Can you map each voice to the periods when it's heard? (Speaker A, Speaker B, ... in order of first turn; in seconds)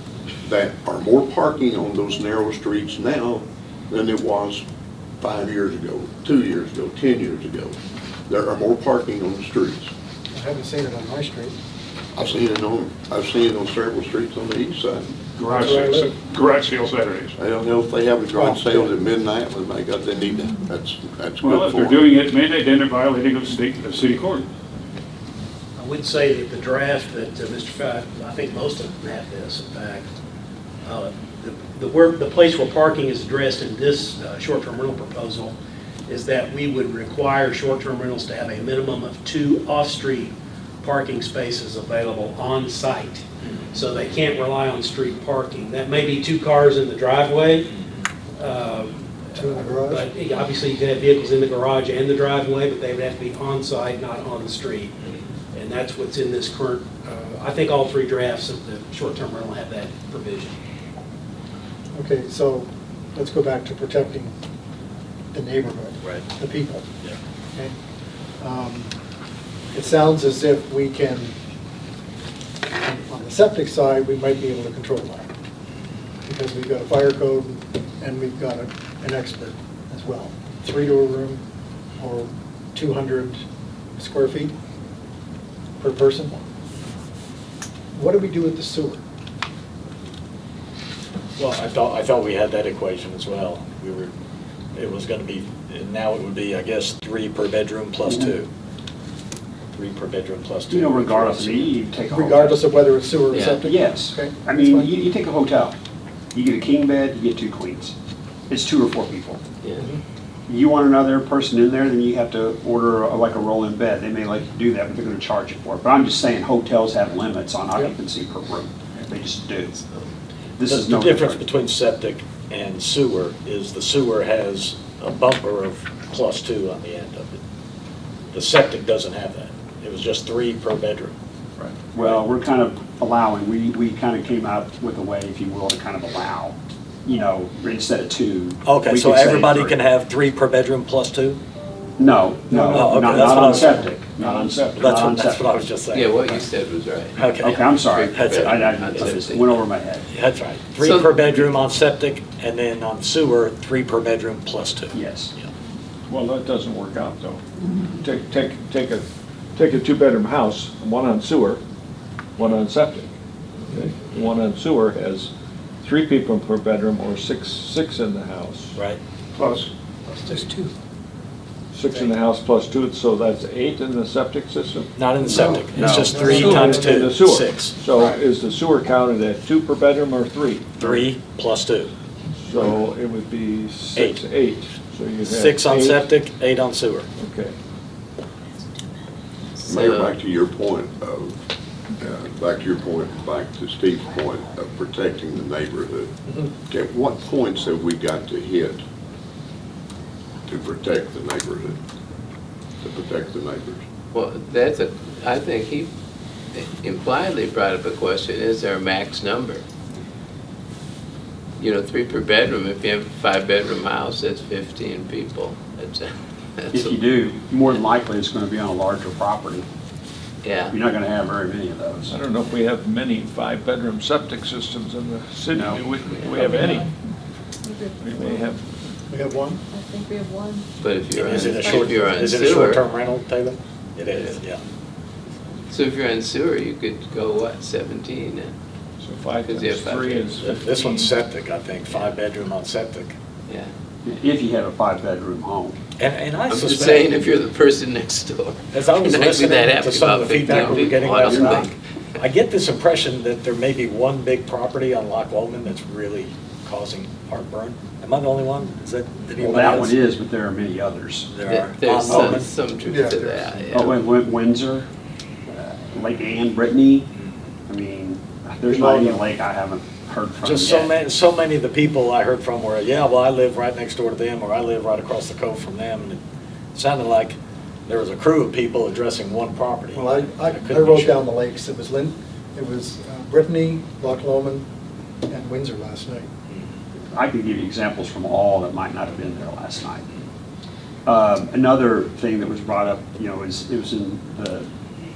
Speaker A: 0.5-4.6, 5.2-7.8, 8.3-9.9, 12.1-15.1, 17.4-22.1, 189.7-191.4, 192.0-198.8, 200.5-201.8, 202.8-203.8
Speaker B: 10.3-11.5, 15.4-16.2, 18.3-18.9, 49.4-50.1, 62.0-64.3, 65.3-66.9, 68.4-68.9, 69.7-71.3, 72.8-75.3, 76.2-81.4, 82.0-83.4, 84.0-84.5, 85.8-86.4, 87.9-89.0, 102.1-104.9, 142.7-143.3, 170.1-170.7, 175.2-177.1, 229.1-229.6, 262.1-263.5, 268.7-269.2, 279.9-284.6, 285.3-286.3
Speaker C: 15.4-17.3, 21.4-24.4, 169.4-169.7
Speaker D: 25.8-30.1, 30.8-35.5, 36.1-47.7, 48.4-60.6
Speaker E: 43.5-43.7, 91.4-94.1, 94.8-98.5, 99.8-101.7, 120.7-127.4, 128.3-131.1, 132.0-132.2, 138.7-141.4, 142.5-146.4, 147.2-149.2, 150.1-155.4, 168.8-169.0, 175.0-177.8, 180.8-181.9, 185.2-187.1, 231.1-234.6, 240.5-243.2, 246.0-247.2, 248.7-260.1, 261.3-262.5, 270.4-276.2, 276.7-281.2
Speaker F: 100.7-102.6, 103.6-105.8, 106.3-107.9, 108.5-109.4, 110.5-119.8, 120.6-121.4, 131.9-139.8, 142.0-145.7, 147.3-150.0, 154.9-155.3, 175.7-176.2, 216.7-219.7, 220.7-222.2, 225.5-225.8, 244.0-245.8, 250.5-251.7, 259.4-261.3, 262.1-262.4, 263.7-264.9, 265.5-267.1, 267.7-270.9, 287.1-290.1, 291.1-294.7
Speaker G: 103.3-103.6, 145.9-149.6, 150.8-151.5, 189.6-190.2, 204.1-205.9, 206.5-209.6, 211.6-216.9, 220.4-220.8, 230.8-232.8, 234.1-234.4, 235.7-238.5, 239.4-240.6, 241.9-242.2, 246.5-251.8, 261.4-264.0
Speaker H: 156.1-157.4, 158.0-161.6, 162.4-163.1, 163.7-165.3, 165.8-168.8, 171.7-175.0, 176.0-180.8, 182.4-186.1, 187.2-187.5, 222.1-226.9, 228.0-228.9, 239.0-241.1
Speaker I: 227.6-228.5, 229.7-230.7